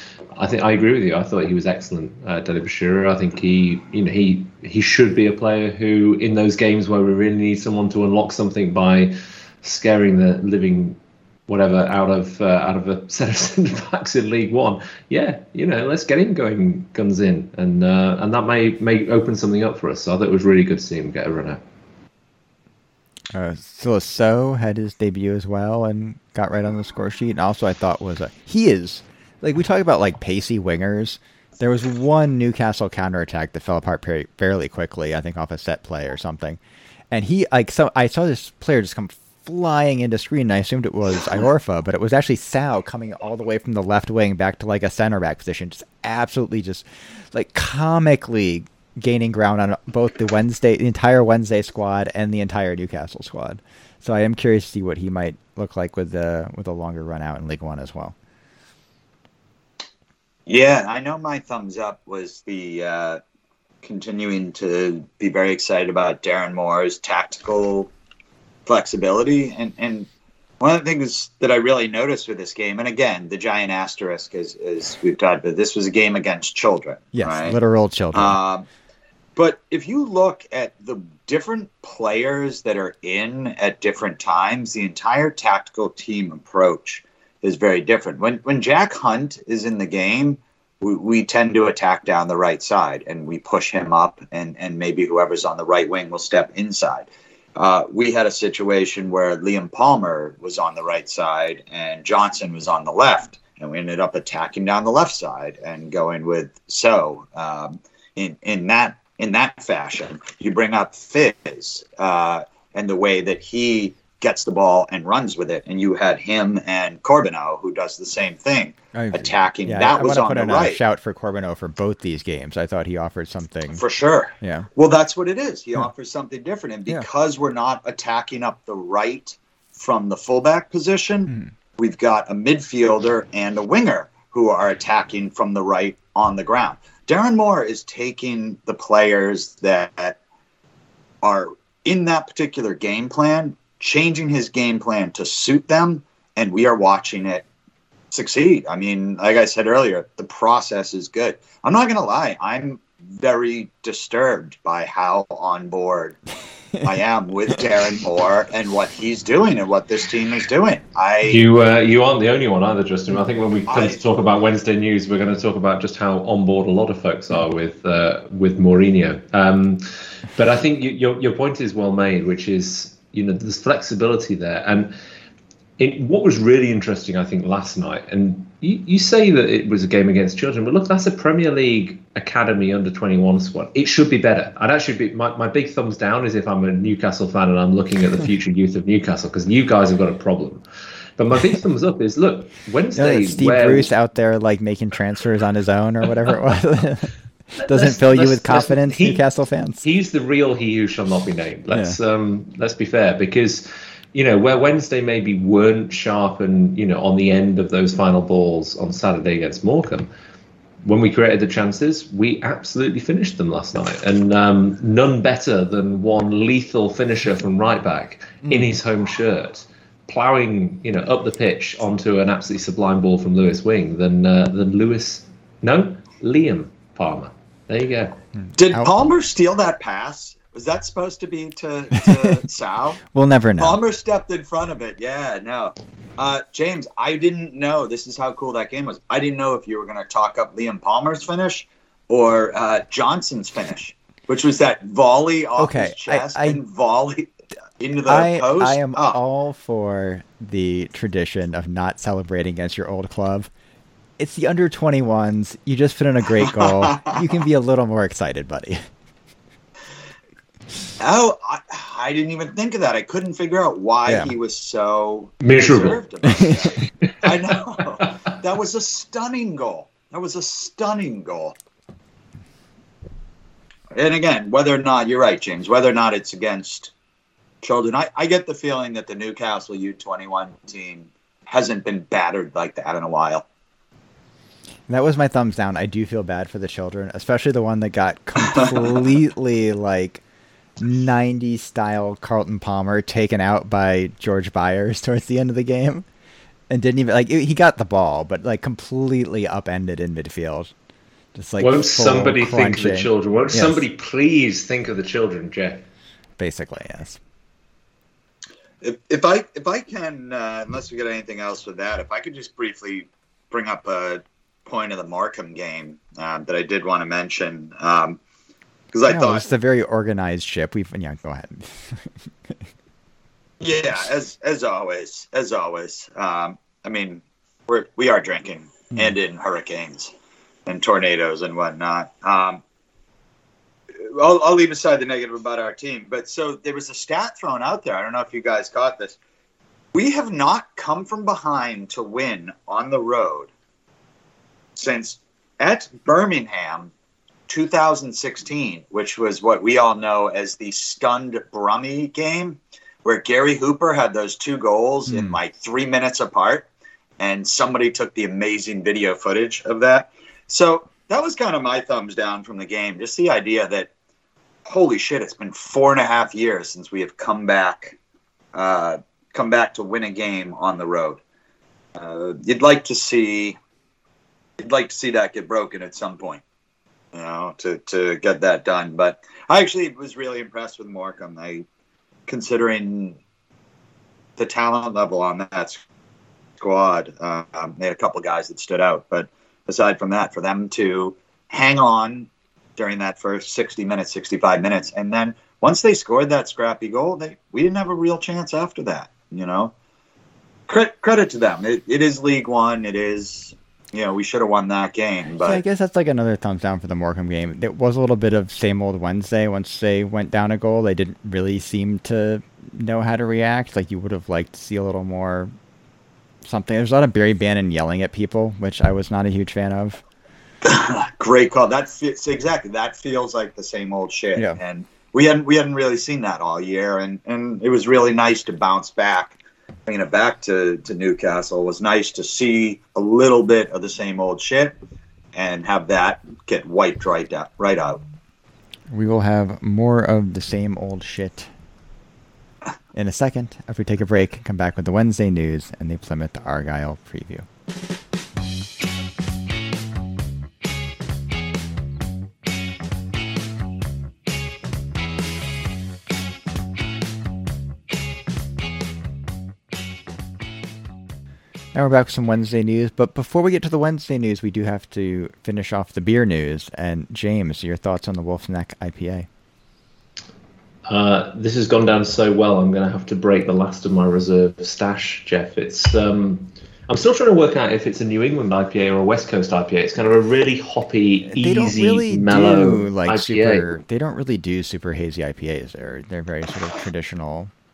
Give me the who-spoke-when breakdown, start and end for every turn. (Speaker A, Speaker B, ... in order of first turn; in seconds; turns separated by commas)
Speaker A: 0.3-21.6, Speaker B: 23.3-36.6, Speaker B: 37.1-58.1, Speaker C: 60.5-63.2, Speaker C: 63.8-67.9, Speaker C: 68.7-70.1, Speaker C: 70.6-77.6, Speaker B: 77.1-78.4, Speaker C: 78.1-78.7, Speaker C: 79.3-120.8, Speaker B: 118.9-123.8, Speaker C: 123.8-140.2, Speaker B: 124.4-124.7, Speaker C: 141.2-147.5, Speaker C: 148.1-156.2, Speaker C: 156.8-161.4, Speaker A: 161.2-174.9, Speaker C: 163.7-164.0, Speaker A: 175.8-190.6, Speaker A: 191.2-193.9, Speaker B: 192.9-199.8, Speaker A: 197.6-199.2, Speaker A: 199.8-210.1, Speaker B: 201.7-202.0, Speaker A: 210.8-228.2, Speaker B: 228.4-228.9, Speaker C: 228.6-233.0, Speaker B: 232.0-232.4, Speaker B: 233.1-233.8, Speaker C: 233.6-249.2, Speaker B: 245.6-246.6, Speaker B: 248.1-253.5, Speaker B: 254.2-258.8, Speaker C: 256.6-257.2, Speaker C: 261.0-271.6, Speaker B: 264.1-264.3, Speaker A: 265.4-266.0, Speaker B: 266.2-266.8, Speaker A: 267.0-267.3, Speaker C: 273.9-276.9, Speaker C: 277.6-283.4, Speaker B: 284.9-290.2, Speaker B: 290.8-296.0, Speaker B: 296.7-300.7, Speaker B: 301.3-303.8, Speaker A: 301.6-305.9, Speaker B: 306.4-307.2, Speaker C: 308.8-318.2, Speaker C: 318.9-319.5, Speaker B: 319.1-322.5, Speaker C: 323.6-330.1, Speaker C: 330.6-332.6, Speaker C: 334.0-339.2, Speaker C: 339.9-343.5, Speaker C: 344.7-346.9, Speaker C: 347.5-356.7, Speaker B: 355.1-355.4, Speaker C: 357.2-363.9, Speaker C: 364.6-368.0, Speaker C: 368.5-371.2, Speaker C: 371.9-373.6, Speaker C: 374.6-376.4, Speaker C: 377.1-381.6, Speaker C: 382.3-383.2, Speaker C: 384.4-385.8, Speaker C: 386.6-399.7, Speaker C: 400.7-405.6, Speaker B: 405.4-415.5, Speaker B: 416.4-420.0, Speaker C: 420.6-429.4, Speaker C: 429.9-434.8, Speaker C: 435.3-438.0, Speaker B: 438.9-441.5, Speaker B: 442.9-447.5, Speaker B: 461.7-469.3, Speaker A: 470.9-483.7, Speaker B: 481.3-487.5